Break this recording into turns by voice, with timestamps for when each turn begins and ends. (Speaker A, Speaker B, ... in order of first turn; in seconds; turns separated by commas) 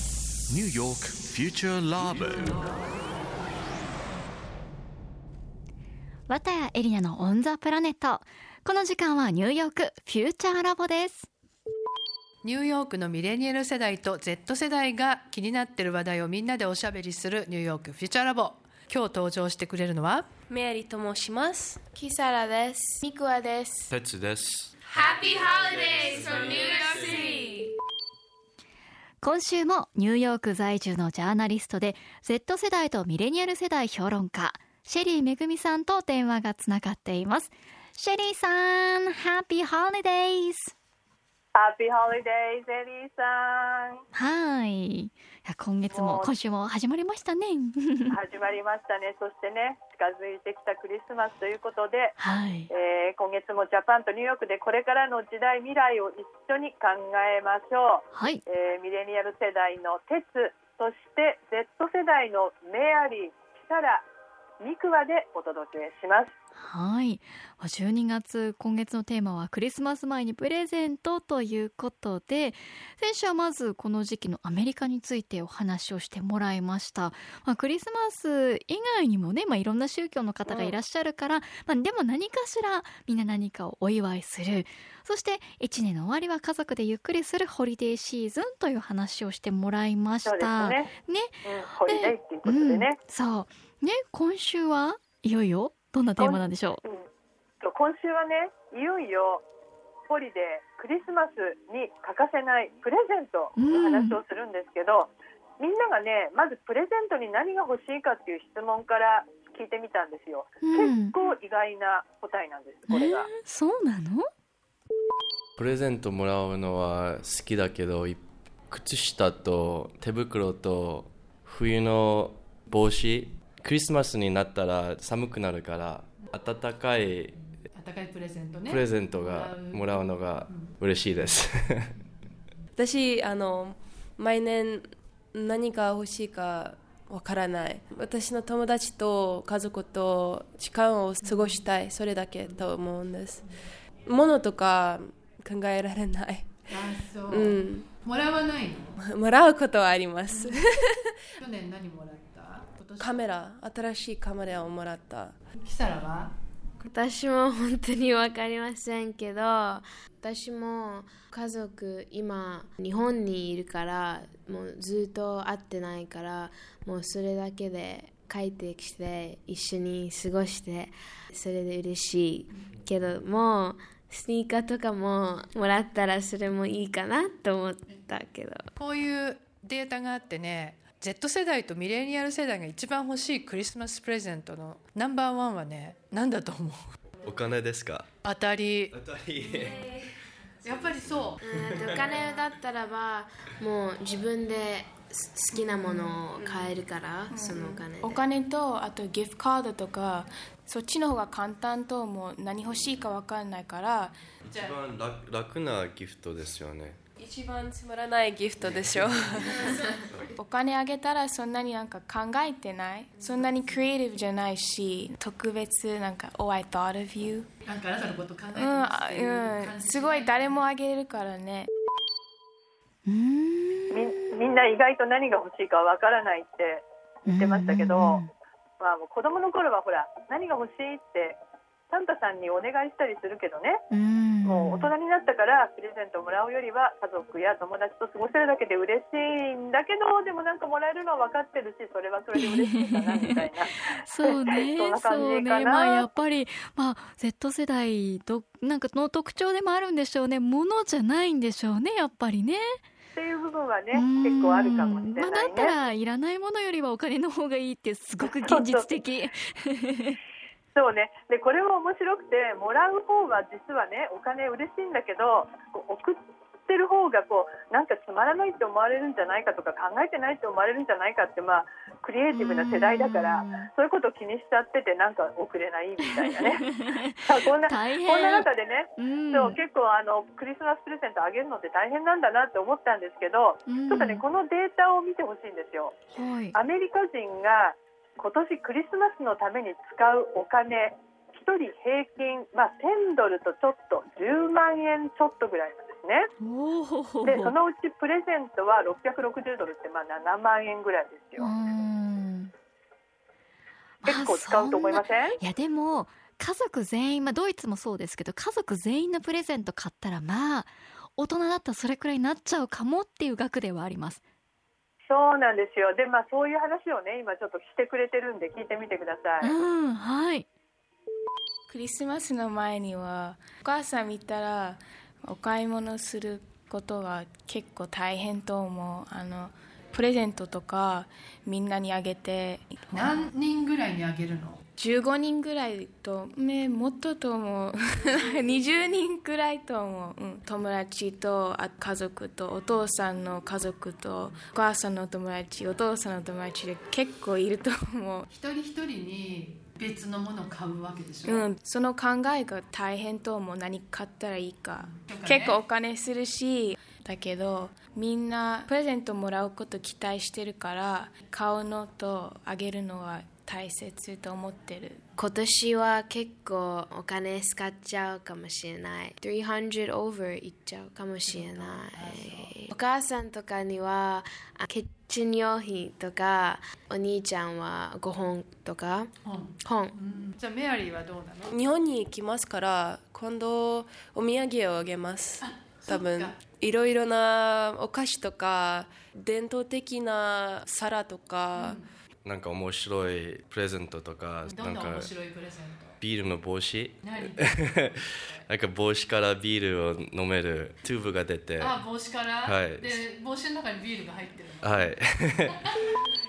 Speaker A: 0.5-2.7, Speaker B: 6.3-11.3, Speaker C: 12.4-20.3, Speaker D: 20.5-21.8, Speaker E: 21.9-24.0, Speaker F: 23.9-24.7, Speaker E: 24.9-27.7, Speaker F: 25.6-26.7, Speaker D: 26.6-27.4, Speaker B: 29.2-40.7, Speaker G: 41.5-44.0, Speaker B: 44.1-48.1, Speaker G: 45.9-46.3, Speaker G: 48.1-52.2, Speaker B: 52.2-52.7, Speaker G: 52.7-64.0, Speaker B: 58.1-58.4, Speaker G: 64.6-66.3, Speaker B: 66.5-96.8, Speaker G: 80.5-80.8, Speaker G: 90.2-90.9, Speaker G: 91.4-93.0, Speaker G: 96.2-97.0, Speaker G: 97.6-99.4, Speaker G: 100.1-113.3, Speaker B: 103.5-104.2, Speaker B: 110.6-111.1, Speaker B: 112.9-114.2, Speaker F: 115.6-127.3, Speaker C: 127.7-130.8, Speaker F: 128.7-131.9, Speaker D: 132.8-143.4, Speaker C: 141.2-141.6, Speaker D: 144.1-147.9, Speaker C: 146.7-148.9, Speaker D: 149.0-151.1, Speaker C: 151.4-153.3, Speaker D: 153.0-155.4, Speaker C: 155.6-156.3, Speaker H: 156.8-178.7, Speaker C: 178.8-186.8, Speaker F: 187.2-188.1, Speaker C: 188.2-188.9, Speaker F: 188.9-190.0, Speaker C: 190.6-191.5, Speaker F: 190.6-192.1, Speaker H: 191.4-198.2, Speaker E: 195.6-196.2, Speaker E: 197.3-204.2, Speaker F: 204.4-207.0, Speaker C: 204.5-204.8, Speaker D: 207.2-210.0, Speaker F: 208.6-209.1, Speaker E: 210.2-217.5, Speaker C: 217.6-220.6, Speaker E: 218.5-221.7, Speaker B: 223.1-224.2, Speaker G: 223.9-228.2, Speaker B: 227.2-228.3, Speaker G: 228.8-231.4, Speaker G: 231.9-233.8, Speaker B: 233.9-234.9, Speaker G: 234.4-246.0, Speaker B: 242.3-243.4, Speaker B: 244.0-252.8, Speaker G: 253.2-255.7, Speaker B: 253.9-260.2, Speaker G: 258.2-258.8, Speaker G: 260.8-276.6, Speaker B: 272.3-273.7, Speaker B: 276.3-279.6, Speaker G: 277.2-286.0, Speaker B: 283.7-284.2, Speaker B: 286.1-286.6, Speaker G: 286.5-296.3, Speaker B: 296.4-297.5, Speaker G: 297.2-301.5, Speaker B: 301.4-302.5, Speaker B: 304.0-314.2, Speaker G: 304.1-305.4, Speaker G: 315.1-319.5, Speaker B: 319.4-320.4, Speaker E: 321.7-333.1, Speaker C: 332.9-334.6, Speaker E: 334.8-348.3, Speaker C: 348.3-351.4, Speaker E: 351.2-365.0, Speaker C: 354.8-355.6, Speaker H: 365.2-379.9, Speaker C: 371.2-372.6, Speaker C: 379.2-381.6, Speaker D: 381.5-391.8, Speaker C: 385.4-386.4, Speaker C: 391.5-391.8, Speaker F: 392.2-395.1, Speaker C: 394.4-396.0, Speaker F: 396.0-401.8, Speaker C: 397.0-398.4, Speaker C: 401.6-404.9, Speaker F: 402.4-403.0, Speaker F: 404.6-405.6